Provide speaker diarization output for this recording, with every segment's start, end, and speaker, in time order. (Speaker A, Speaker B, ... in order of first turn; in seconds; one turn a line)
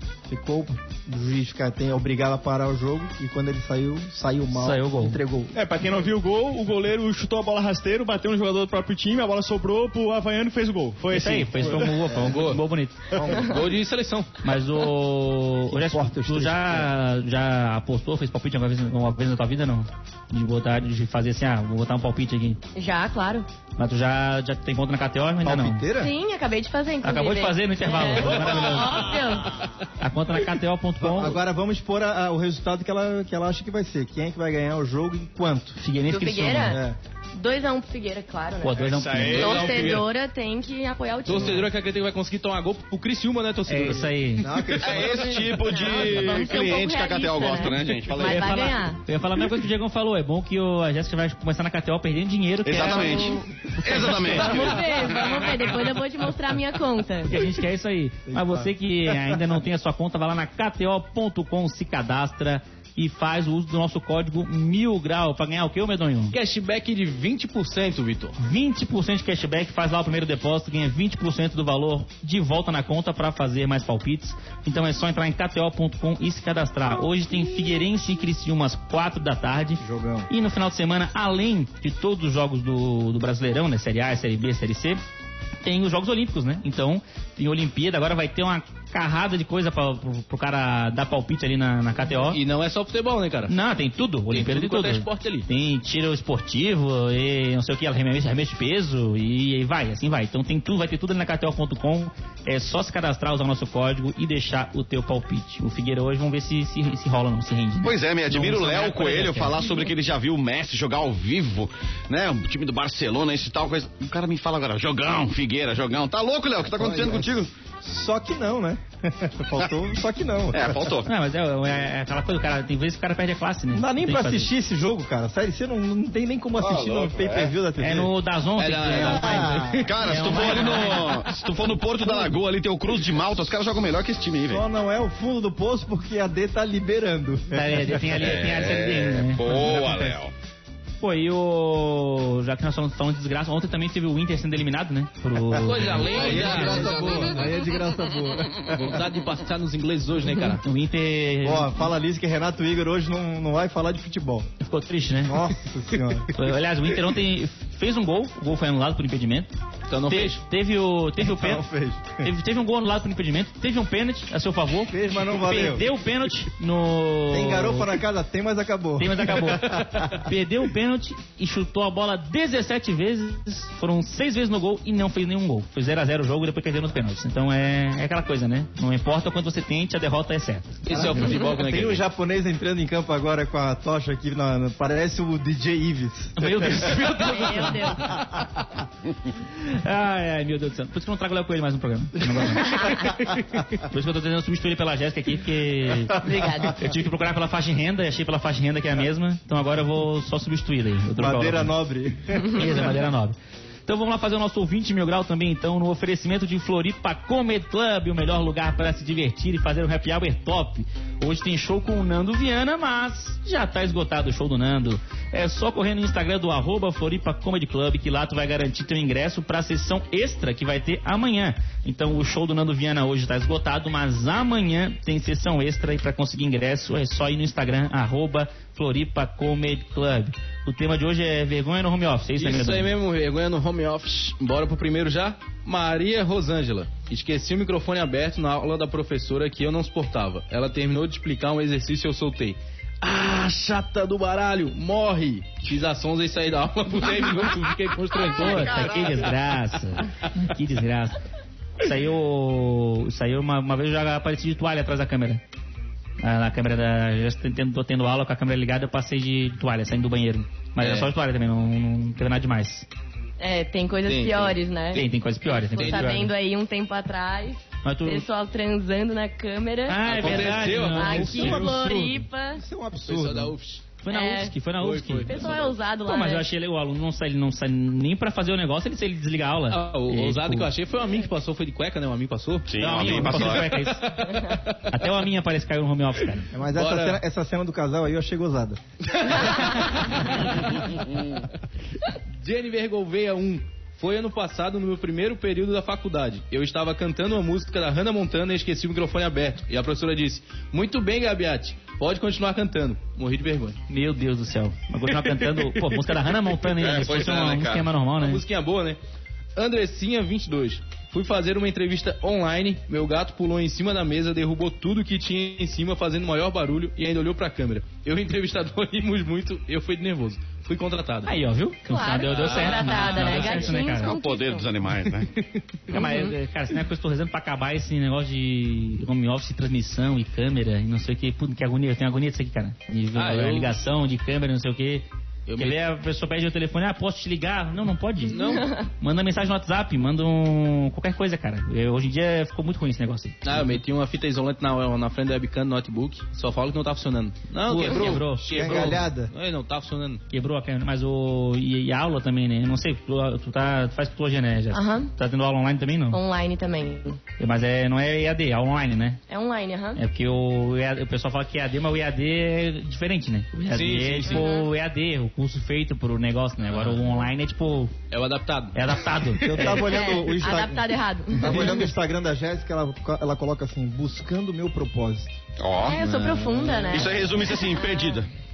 Speaker A: 0.3-5.5
Speaker B: 4.5-5.2
Speaker C: 5.5-12.1
Speaker B: 11.1-13.1
Speaker D: 12.2-12.6
Speaker A: 13.1-13.6
Speaker D: 13.3-14.3
Speaker B: 14.4-22.6
Speaker A: 15.7-16.9
Speaker E: 22.8-23.5
Speaker B: 23.8-25.9
Speaker A: 25.4-26.1
Speaker E: 25.9-29.6
Speaker B: 27.0-29.1
Speaker B: 30.0-31.4
Speaker A: 31.0-35.8
Speaker B: 35.8-36.8
Speaker E: 36.1-36.8
Speaker A: 36.7-37.0
Speaker E: 37.4-41.7
Speaker B: 38.6-39.9
Speaker C: 38.8-40.0
Speaker D: 39.4-40.0
Speaker D: 41.2-44.7
Speaker B: 43.7-44.5
Speaker A: 44.4-45.8
Speaker F: 44.8-48.7
Speaker E: 45.5-49.0
Speaker B: 48.2-54.6
Speaker F: 52.6-55.3
Speaker E: 52.9-53.4
Speaker E: 54.2-57.4
Speaker B: 57.3-66.3
Speaker A: 58.3-59.4
Speaker D: 66.3-68.4
Speaker B: 68.4-85.0
Speaker A: 79.8-80.3
Speaker B: 85.6-92.4
Speaker D: 92.3-93.5
Speaker B: 93.5-109.6
Speaker D: 94.3-95.5
Speaker F: 107.8-117.5
Speaker A: 116.6-120.9
Speaker F: 120.5-121.1
Speaker B: 121.0-124.5
Speaker A: 123.7-128.1
Speaker F: 126.6-127.5
Speaker B: 127.8-131.2
Speaker D: 128.6-130.8
Speaker A: 128.9-129.8
Speaker F: 129.8-134.6
Speaker A: 134.5-138.2
Speaker B: 137.5-140.2
Speaker F: 138.2-140.3
Speaker B: 141.0-146.3
Speaker A: 145.5-149.0
Speaker D: 145.5-147.5
Speaker F: 146.4-147.2
Speaker D: 148.6-150.6
Speaker B: 150.6-151.9
Speaker A: 151.4-154.5
Speaker B: 154.6-155.5
Speaker A: 155.2-156.3
Speaker B: 156.3-159.5
Speaker D: 159.9-160.4
Speaker B: 160.1-161.7
Speaker A: 161.2-162.3
Speaker B: 162.2-168.0
Speaker A: 164.9-165.9
Speaker A: 167.3-170.3
Speaker B: 169.0-181.0
Speaker D: 180.8-182.0
Speaker A: 180.9-186.9
Speaker B: 186.4-188.2
Speaker E: 187.1-188.2
Speaker B: 189.5-193.2
Speaker E: 192.7-193.0
Speaker B: 193.7-201.7
Speaker E: 196.2-196.8
Speaker A: 201.2-202.8
Speaker B: 202.5-232.9
Speaker D: 232.4-248.9
Speaker B: 248.3-251.2
Speaker F: 248.4-249.3
Speaker B: 251.8-255.4
Speaker B: 256.2-262.9
Speaker D: 260.8-261.1
Speaker E: 263.4-272.6
Speaker D: 264.1-265.1
Speaker B: 264.9-266.3
Speaker D: 265.6-266.2
Speaker B: 267.8-268.2
Speaker B: 269.9-271.7
Speaker D: 270.1-271.5
Speaker A: 271.2-273.6
Speaker D: 273.0-273.9
Speaker B: 274.0-275.4
Speaker E: 274.1-274.6
Speaker D: 274.8-275.8
Speaker E: 275.3-276.5
Speaker B: 276.0-280.7
Speaker D: 279.7-284.8
Speaker F: 282.7-283.7
Speaker B: 282.8-284.2
Speaker B: 284.8-286.5
Speaker A: 286.5-288.8
Speaker D: 286.7-287.2
Speaker D: 289.2-290.8
Speaker D: 292.4-303.8
Speaker B: 303.9-308.4
Speaker D: 305.1-306.1
Speaker F: 306.7-307.9
Speaker D: 308.2-309.0
Speaker D: 309.6-321.4
Speaker B: 321.3-324.1
Speaker E: 321.9-324.7
Speaker D: 322.3-323.6
Speaker F: 323.6-325.3
Speaker D: 325.1-325.6
Speaker B: 325.9-335.1
Speaker E: 325.9-326.3
Speaker D: 333.1-333.7
Speaker D: 335.5-335.8
Speaker B: 335.6-343.7
Speaker D: 338.3-338.7
Speaker E: 338.4-338.9
Speaker D: 343.4-350.2
Speaker B: 347.6-348.6
Speaker A: 348.5-349.3
Speaker B: 350.3-356.2
Speaker E: 354.7-355.1
Speaker E: 356.1-357.2
Speaker B: 357.4-359.2
Speaker E: 359.3-360.0
Speaker B: 359.9-367.9
Speaker D: 363.7-364.5
Speaker E: 364.3-364.7
Speaker D: 366.6-367.0
Speaker D: 368.1-369.7
Speaker B: 368.7-369.9
Speaker A: 369.4-375.4
Speaker E: 369.7-371.8
Speaker F: 375.6-376.0
Speaker E: 375.8-378.2
Speaker D: 376.0-377.0
Speaker F: 376.9-378.3